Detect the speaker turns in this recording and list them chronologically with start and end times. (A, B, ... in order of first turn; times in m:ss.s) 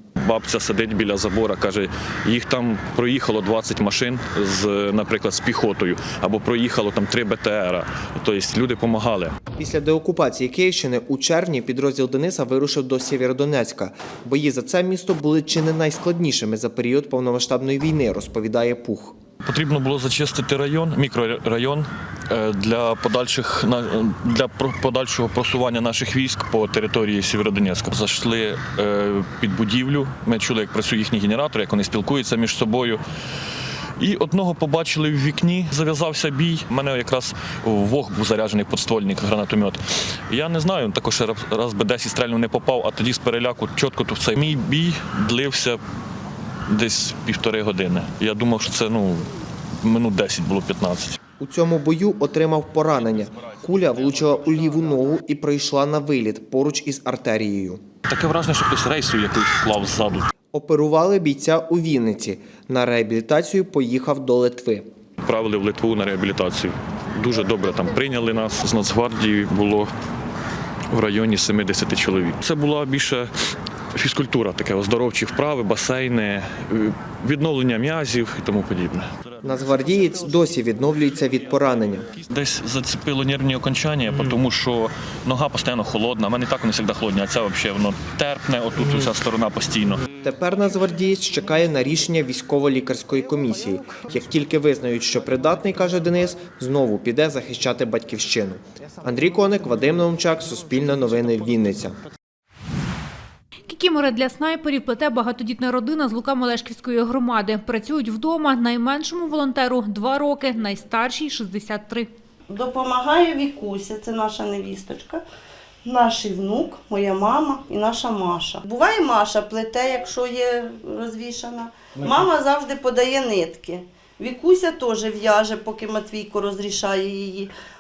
0:00.2-0:09.3 A
0:09.6-0:19.2 B
0:19.4-0:33.0 A
0:34.0-0:45.8 A
0:46.7-0:49.3 A
0:49.8-0:51.2 A
0:51.4-0:57.8 B
0:58.1-1:00.3 A
1:00.5-1:04.8 B
1:05.2-1:09.9 A
1:10.9-1:13.3 A
1:13.9-1:19.1 A
1:19.4-1:22.1 B
1:22.3-1:30.0 A
1:30.2-1:42.0 B
1:43.7-1:52.1 C
1:52.5-1:55.2 D
1:55.8-2:07.5 D